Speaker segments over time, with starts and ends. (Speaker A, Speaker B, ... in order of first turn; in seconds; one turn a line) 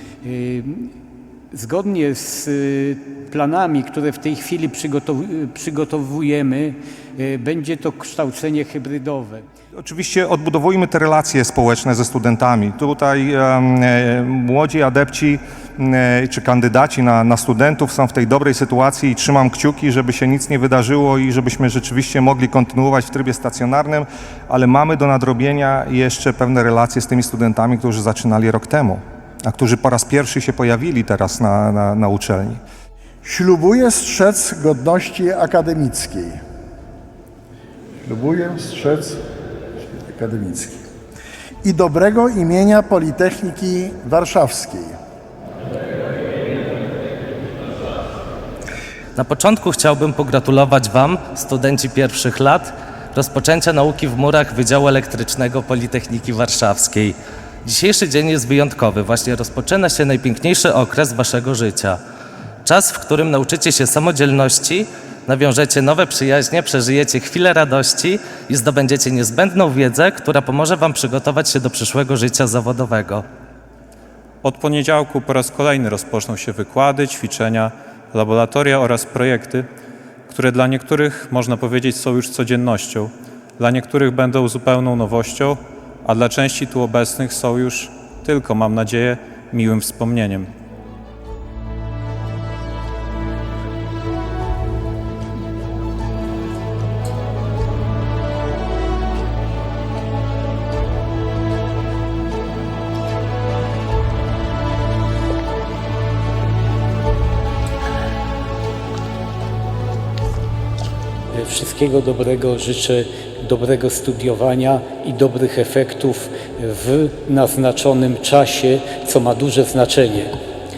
Speaker A: 0.2-0.9
Speaker A: 1.5-9.4
Speaker B: 9.8-32.6
Speaker C: 33.2-36.4
Speaker C: 38.0-39.2
Speaker C: 39.8-40.8
Speaker C: 41.6-44.9
Speaker D: 49.2-62.0
Speaker D: 62.6-73.2
Speaker E: 74.5-79.7
Speaker E: 80.3-90.5
Speaker A: 111.3-120.3